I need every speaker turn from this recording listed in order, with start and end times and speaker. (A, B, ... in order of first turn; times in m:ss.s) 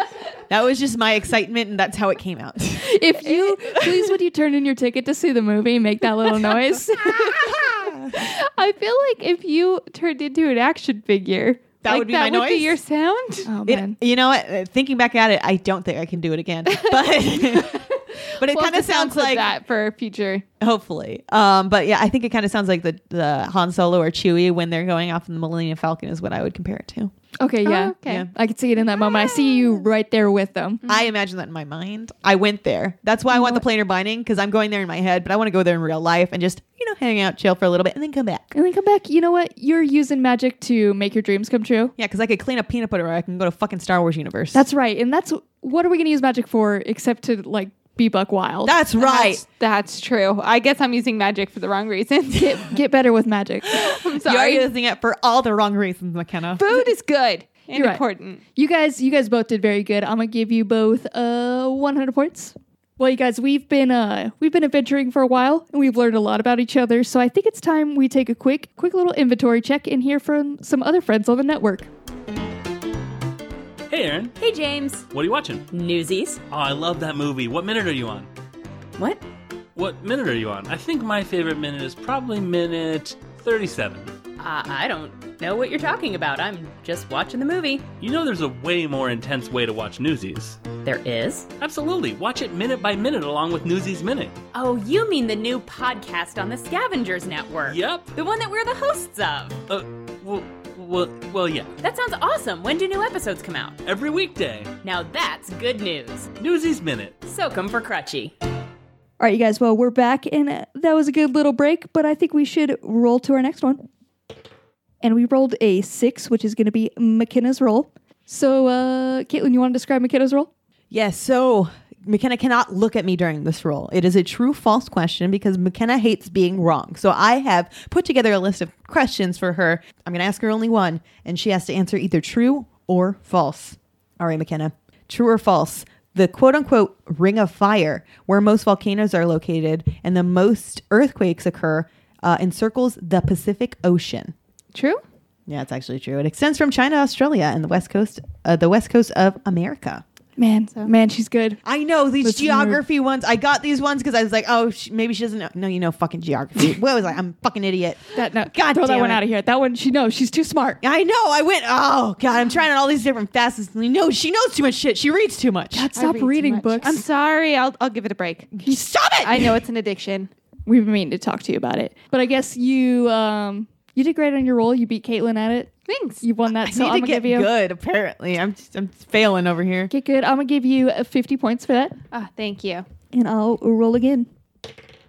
0:00.5-0:03.9 A
0:02.8-0:07.4 B
0:07.0-0:08.2 A
0:08.1-0:13.5 C
0:11.8-0:12.8 A
0:13.4-0:14.0 B
0:13.6-0:19.5 A
0:16.7-0:20.4 C
0:20.6-0:27.1 A
0:27.4-0:30.8 B
0:27.6-0:28.3 C
0:30.9-0:38.5 A
0:33.3-0:33.6 B
0:38.5-0:41.9 B
0:42.0-0:44.6 A
0:44.5-0:48.7 B
0:48.6-0:49.4 A
0:49.0-0:52.7 C
0:52.3-0:53.9 B
0:53.8-0:54.7 C
0:54.2-0:56.6 A
0:56.6-0:58.4 C
0:57.7-0:58.0 B
0:58.6-1:11.9 B
1:13.9-1:14.3 D
1:14.4-1:15.0 E
1:15.1-1:15.7 D
1:15.7-1:16.4 E
1:16.5-1:18.3 D
1:19.0-1:19.2 E
1:19.8-1:24.1 D
1:24.4-1:27.9 E
1:28.0-1:30.6 D
1:30.8-1:31.5 E
1:31.6-1:34.3 D
1:34.5-1:39.6 E
1:37.7-1:38.1 D
1:39.7-1:41.7 D
1:41.8-1:43.8 E
1:43.8-1:44.7 D
1:44.8-1:46.3 E
1:46.4-1:47.2 D
1:47.2-1:48.3 E
1:49.2-1:53.8 B
1:55.0-2:00.5 B
2:00.9-2:24.3 A
2:24.7-2:25.0 C
2:25.5-2:30.0 A
2:30.4-2:31.6 B
2:31.6-2:38.0 A
2:32.2-2:32.8 B
2:38.1-2:40.8 B
2:38.5-2:39.2 A
2:40.8-2:45.9 A
2:45.7-2:47.0 B
2:45.9-2:48.6 C
2:48.6-2:49.6 A
2:49.2-2:50.3 C
2:50.6-2:55.7 B
2:55.9-2:56.2 C
2:56.2-2:57.5 B
2:56.6-2:59.9 A
2:59.9-3:01.9 B
3:02.1-3:02.8 C
3:03.1-3:04.3 B